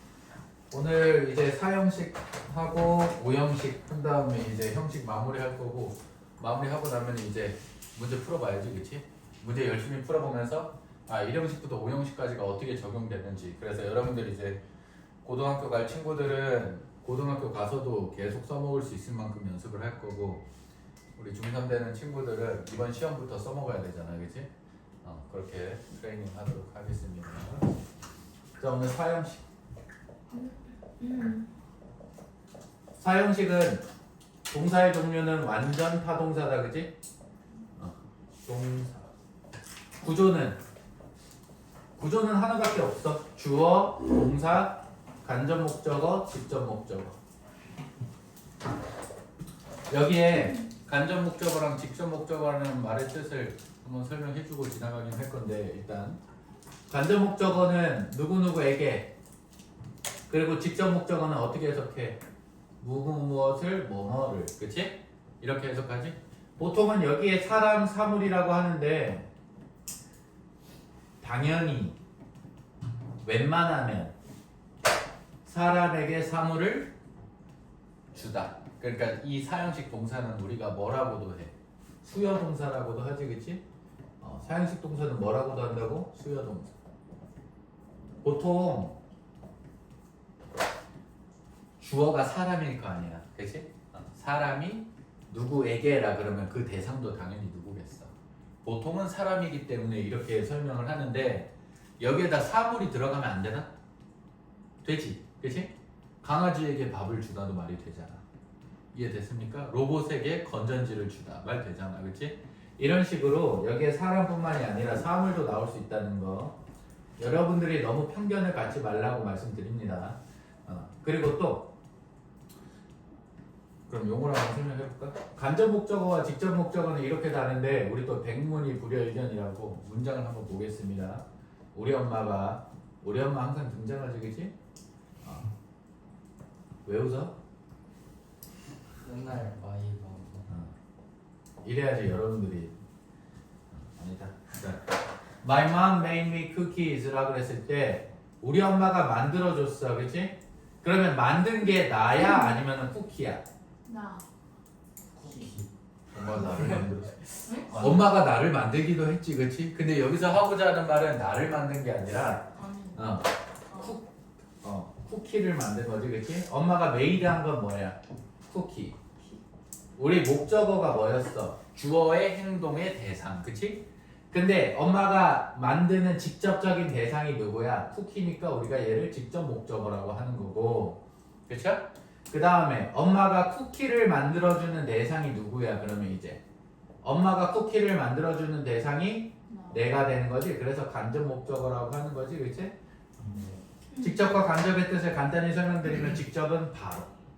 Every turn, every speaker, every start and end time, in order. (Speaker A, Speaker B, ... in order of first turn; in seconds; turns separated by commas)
Speaker A: 0.7-14.6, Speaker A: 15.2-20.4, Speaker A: 21.1-24.5, Speaker A: 25.0-27.7, Speaker A: 28.6-29.4, Speaker B: 30.3-31.4, Speaker A: 33.0-33.8, Speaker A: 34.5-36.9, Speaker A: 37.8-39.0, Speaker A: 40.0-40.6, Speaker A: 41.9-47.2, Speaker A: 49.9-56.2, Speaker A: 56.9-59.1, Speaker A: 60.3-62.2, Speaker A: 62.8-69.3, Speaker A: 71.2-72.0, Speaker A: 73.2-74.1, Speaker A: 75.4-76.9, Speaker A: 78.1-83.6, Speaker A: 84.2-86.7, Speaker A: 88.2-89.0, Speaker A: 91.8-98.1, Speaker A: 98.6-103.7, Speaker A: 104.8-108.2, Speaker A: 108.9-116.5, Speaker A: 117.2-121.7, Speaker A: 123.9-134.5, Speaker A: 135.2-135.5, Speaker A: 136.8-137.3, Speaker C: 139.0-140.5, Speaker A: 140.5-140.7, Speaker A: 141.6-142.7, Speaker A: 143.7-144.8, Speaker A: 145.4-153.4, Speaker B: 153.8-154.2, Speaker C: 155.2-155.7, Speaker A: 156.1-164.1, Speaker C: 156.3-156.9, Speaker B: 157.4-157.7, Speaker B: 162.5-163.2, Speaker B: 163.7-164.0, Speaker A: 164.6-169.0, Speaker A: 169.9-186.4, Speaker A: 187.0-192.7, Speaker B: 189.5-189.9, Speaker B: 193.9-194.3, Speaker A: 194.0-197.1